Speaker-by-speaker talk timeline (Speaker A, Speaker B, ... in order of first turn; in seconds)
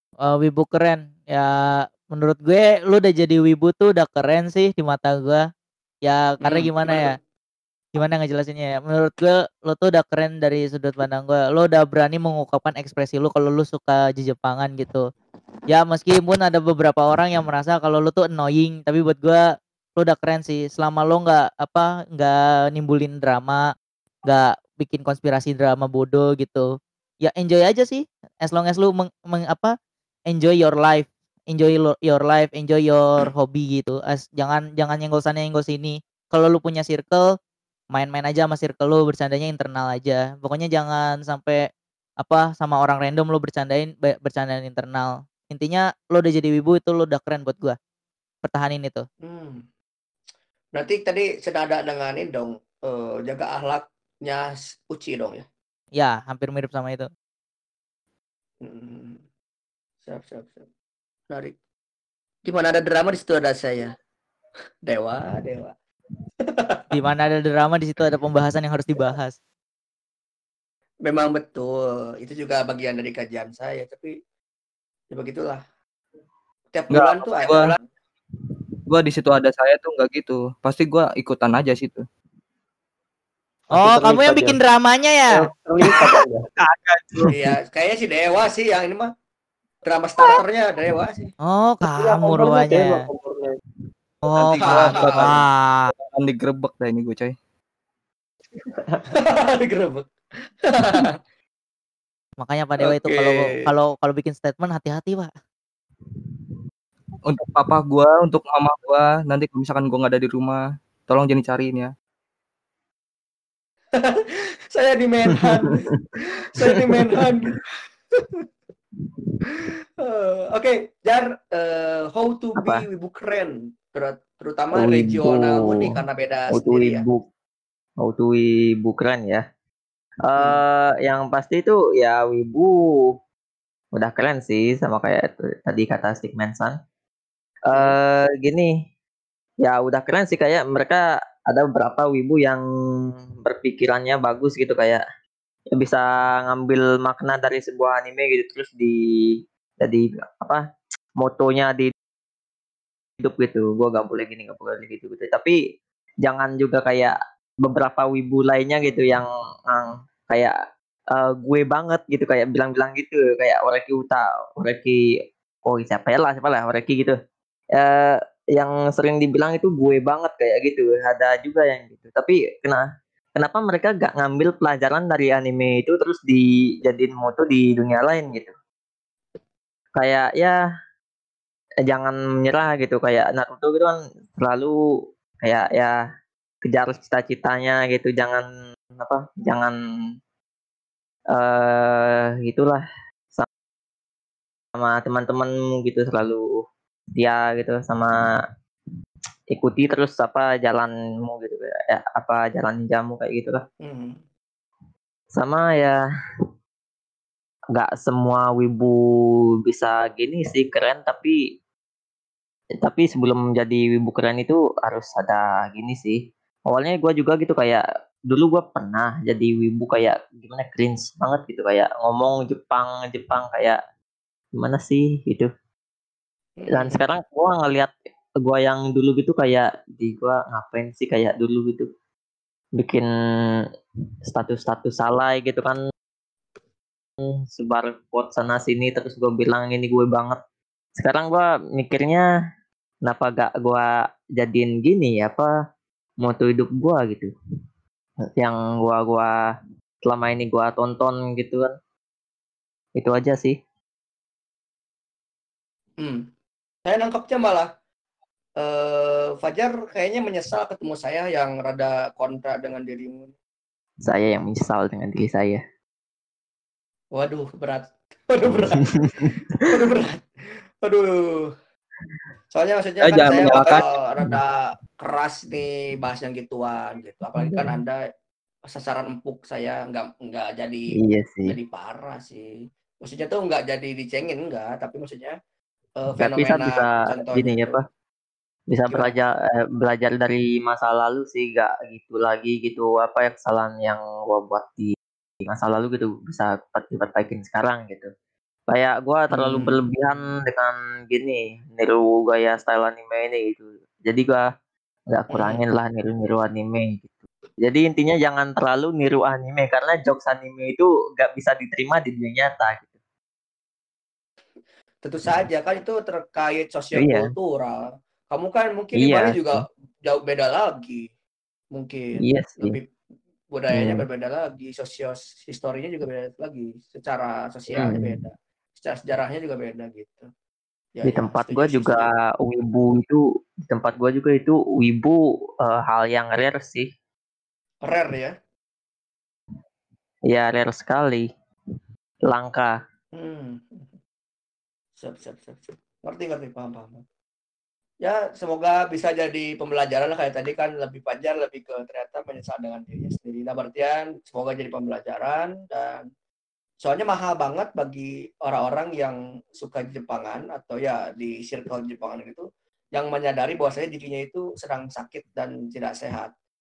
Speaker A: 0.2-5.5, 6.0-7.2, 8.0-15.1, 15.7-19.4, 20.0-23.7, 24.3-26.7, 27.2-29.8, 30.3-37.3, 37.9-41.7, 42.2-47.8, 48.4-49.1, 56.0-57.1, 66.9-69.4, 83.7-85.4, 91.5-93.0, 94.2-95.9, 102.4-105.3
Speaker B: 6.4-7.2, 49.2-49.6, 50.8-55.5, 58.6-59.2, 60.0-60.7, 61.3-61.5, 62.5-64.0, 64.9-65.8, 66.5-66.9, 71.1-74.1, 75.1-75.6, 76.7-77.8, 87.3-89.1, 89.8-91.3, 94.7-95.4, 99.1-100.1, 100.6-101.1, 102.8-103.5, 114.0-118.5, 119.5-127.0, 130.4-130.6, 203.8-204.2, 226.6-227.0, 256.0-256.3, 256.9-257.7, 258.6-263.3, 267.1-270.2, 270.8-271.6, 272.5-278.0, 278.7-281.0, 281.5-285.4, 286.0-287.8, 299.3-299.8, 305.3-305.6, 315.0-321.1, 321.7-322.9, 323.5-330.3, 330.9-332.1, 337.8-338.4, 343.1-343.9, 345.0-347.0, 348.0-356.1, 356.8-366.3
Speaker C: 76.9-77.8, 78.9-82.0, 86.7-87.3, 94.3-95.4, 96.0-97.4, 107.2-111.9, 273.0-273.9
Speaker D: 83.7-84.6, 85.3-86.5, 91.9-93.6, 98.7-99.1
Speaker E: 122.6-122.8, 124.8-126.0, 126.5-127.2, 128.0-129.4, 130.2-132.7, 133.9-136.8, 137.7-138.7, 139.6-142.6, 143.4-145.0, 145.7-149.0, 149.8-150.6, 151.2-151.9, 153.2-155.6, 156.2-160.6, 161.1-165.0, 165.7-167.2, 167.8-172.8, 173.4-178.5, 180.0-180.6, 181.9-184.8, 185.4-186.0, 186.6-188.5, 189.0-189.8, 191.3-192.8, 194.8-196.5, 197.2-198.2, 199.5-203.6, 205.3-206.0, 207.8-209.0, 209.7-211.4, 212.8-223.8, 224.6-225.5, 226.7-231.9, 232.8-233.1, 234.3-235.8, 237.5-240.4, 241.0-242.3, 243.1-245.5, 246.2-247.3, 248.4-249.3, 250.1-251.7, 253.0-253.6, 264.1-265.6, 277.4-277.8, 280.9-281.6, 286.2-287.8, 288.7-298.1, 298.7-304.4, 305.1-312.9, 317.0-317.3, 319.0-319.5, 322.2-322.8, 323.7-324.1, 327.8-328.2, 331.1-336.9, 340.3-341.3, 342.2-342.8